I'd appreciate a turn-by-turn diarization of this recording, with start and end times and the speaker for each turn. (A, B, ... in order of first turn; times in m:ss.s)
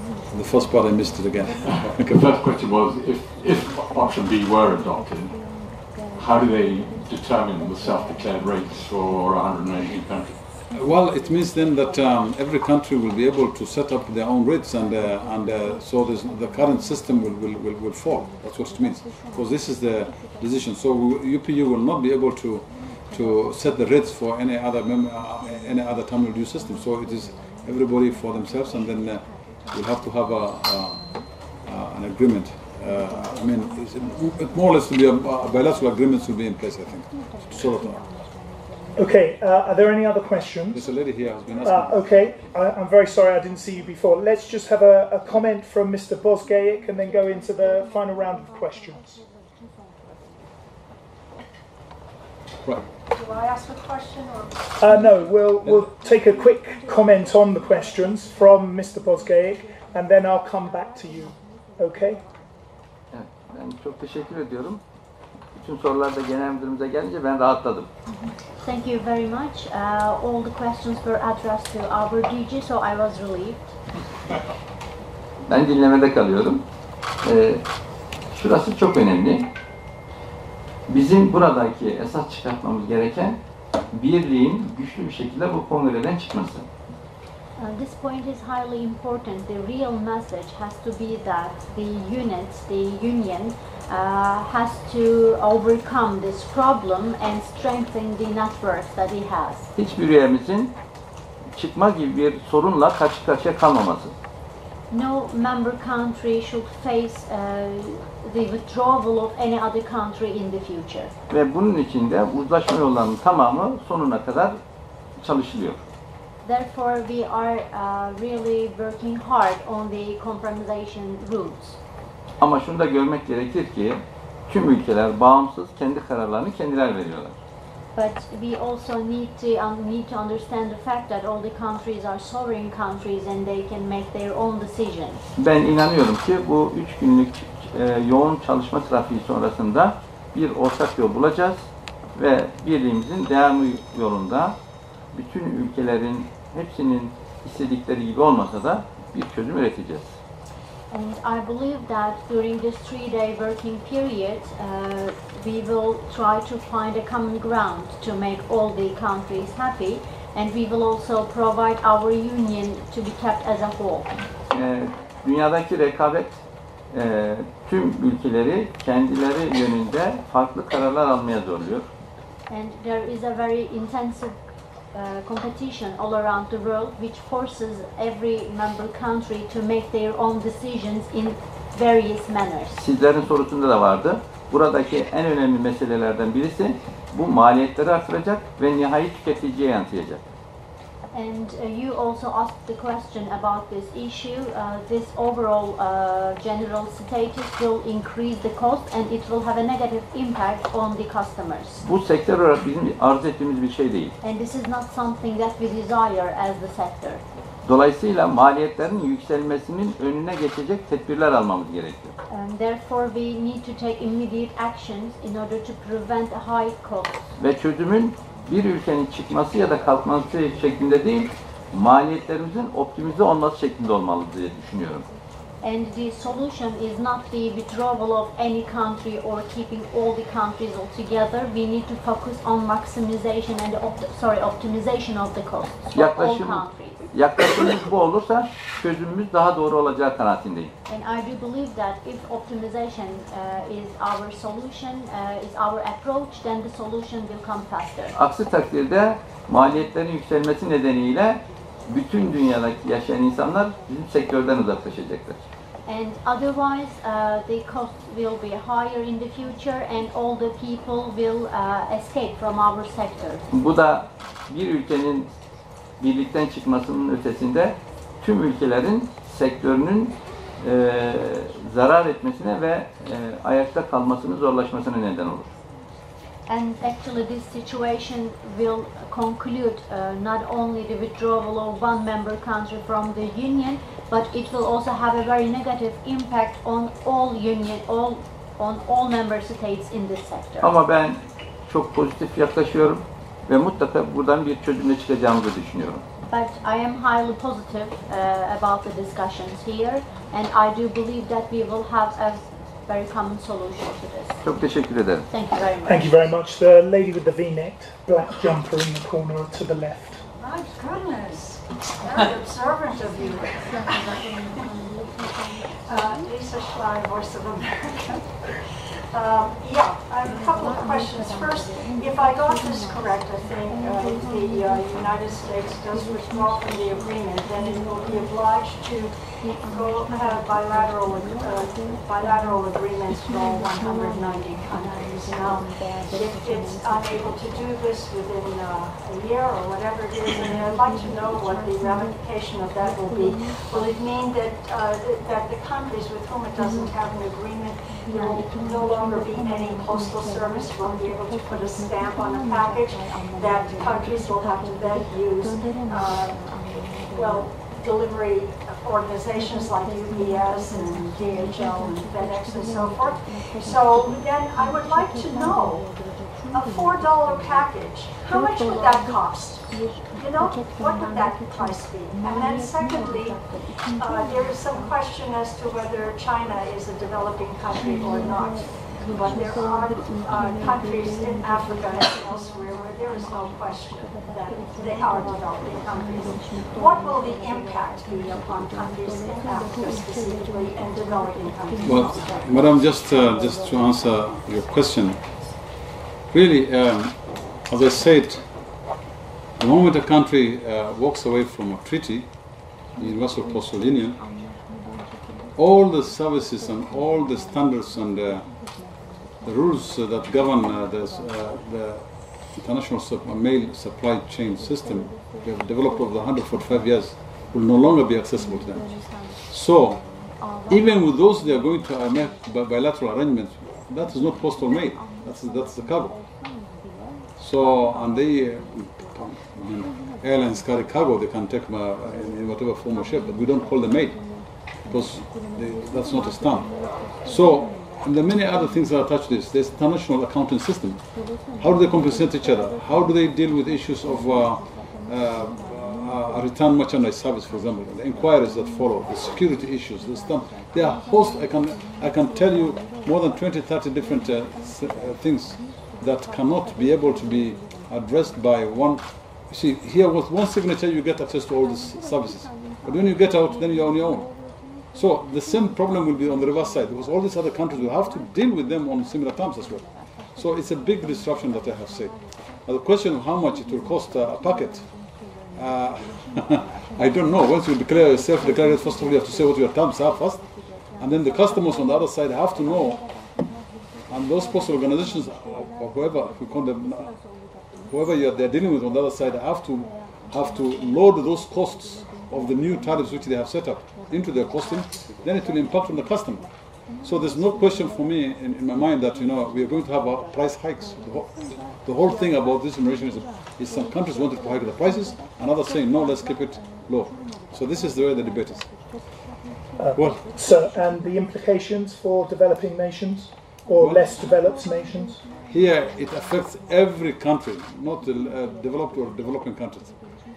0:00.3-0:02.2 A
0:01.6-0:10.4 B
0:10.7-0:38.1 A
0:39.0-0:40.9 C
0:40.7-0:42.3 A
0:41.6-0:49.2 C
0:53.1-0:54.7 D
0:54.8-1:02.2 C
1:03.1-1:04.8 E
1:05.5-1:07.9 E
1:08.6-1:13.7 F
1:15.5-1:16.6 E
1:17.2-1:17.6 E
1:18.3-1:19.5 E
1:20.9-1:23.4 E
1:23.9-1:26.7 E
1:27.6-1:39.7 F
1:39.8-1:40.7 E
1:41.5-1:44.1 E
1:44.9-1:51.1 F
1:51.3-1:54.6 E
1:55.2-1:55.8 E
1:56.4-2:01.8 F
2:02.4-2:07.3 E
2:07.9-2:15.2 F
2:15.4-2:24.6 E
2:25.1-2:30.2 E
2:30.9-2:44.1 F
2:44.5-2:46.4 E
2:46.9-2:51.8 E
2:52.5-2:54.4 F
2:54.9-3:02.8 F
3:02.8-3:10.2 E
3:11.1-3:21.8 F
3:21.8-3:24.1 E
3:24.2-3:27.2 F
3:27.6-3:32.1 E
3:32.3-3:37.3 F
3:37.4-3:45.1 E
3:45.6-3:57.0 F
3:55.9-4:00.7 E
4:00.9-4:08.2 F
4:08.1-4:15.4 E
4:15.8-4:23.4 F
4:23.5-4:25.3 E
4:26.0-4:35.5 E
4:36.5-4:50.7 F
4:50.6-4:56.0 E
4:56.3-5:04.4 F
5:04.4-5:05.3 E
5:05.3-5:06.2 F
5:05.8-5:10.2 C
5:10.4-5:14.6 D
5:15.8-6:06.0 D
6:06.5-6:32.5 D
6:31.8-6:35.2 A
6:36.3-6:38.4 A
6:39.6-6:42.3 A
6:43.0-6:44.2 A
6:45.5-6:48.5 A
6:49.4-7:00.1 A
7:00.7-7:06.2 A
7:07.4-7:14.2 A
7:14.8-7:21.0 A
7:21.5-7:44.3 A
7:44.9-7:54.9 A
7:55.5-8:00.4 A
8:01.0-8:03.0 A
8:04.1-8:07.2 A
8:07.8-8:28.7 A
8:29.8-8:35.2 C
8:30.0-8:30.2 A
8:33.8-8:34.3 A
8:35.5-8:40.0 A